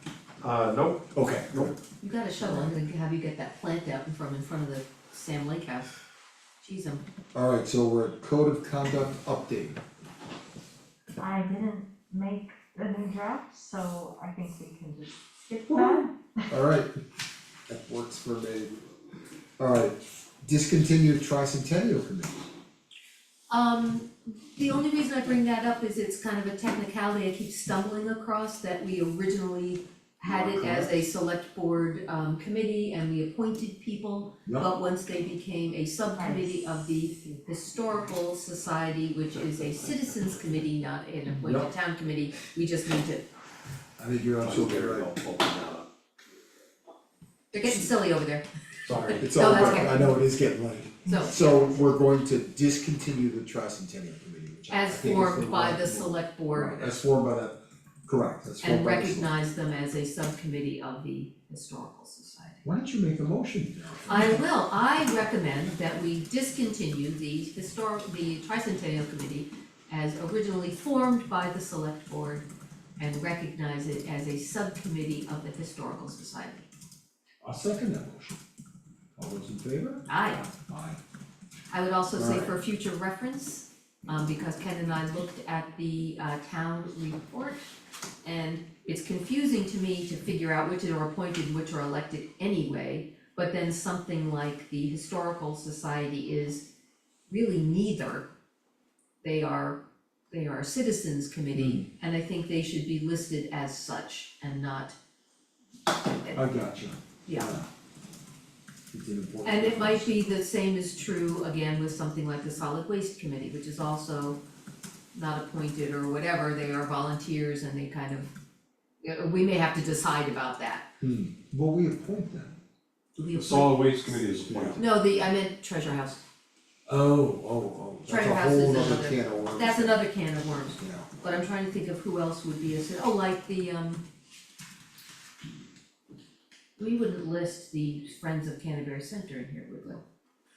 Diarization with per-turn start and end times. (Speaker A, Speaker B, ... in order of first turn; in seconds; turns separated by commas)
Speaker A: 0.4-1.7, Speaker B: 1.1-1.7, Speaker C: 2.0-5.9, Speaker B: 2.4-2.7, Speaker C: 6.6-7.0, Speaker B: 7.3-9.8, Speaker D: 11.2-16.5, Speaker B: 15.7-16.9, Speaker B: 17.7-18.7, Speaker B: 19.6-22.5, Speaker C: 23.5-43.2, Speaker B: 30.2-30.9, Speaker D: 36.1-36.5, Speaker B: 41.4-41.7, Speaker B: 44.0-45.1, Speaker A: 44.4-45.9, Speaker C: 47.5-50.1, Speaker A: 48.8-49.9, Speaker B: 49.2-59.3, Speaker C: 51.0-52.0, Speaker C: 54.7-56.9, Speaker C: 58.6-62.6, Speaker B: 62.6-64.4, Speaker C: 64.1-72.5, Speaker C: 73.0-76.7, Speaker B: 77.4-78.4, Speaker B: 79.2-81.0, Speaker C: 80.1-80.4, Speaker C: 81.7-87.7, Speaker B: 82.1-82.5, Speaker C: 88.2-96.6, Speaker C: 97.3-98.3, Speaker C: 99.2-99.8, Speaker C: 100.3-105.0, Speaker B: 101.5-101.8, Speaker C: 106.0-106.4, Speaker B: 106.3-107.7, Speaker C: 107.2-107.5, Speaker B: 108.9-110.1, Speaker C: 109.4-114.4, Speaker C: 115.1-118.3, Speaker C: 119.0-120.8, Speaker B: 121.0-122.5, Speaker C: 123.2-124.0, Speaker A: 123.3-124.8, Speaker B: 124.5-124.9, Speaker C: 124.8-126.2, Speaker B: 126.9-130.1, Speaker C: 128.1-134.0, Speaker B: 130.7-131.1, Speaker C: 136.8-140.0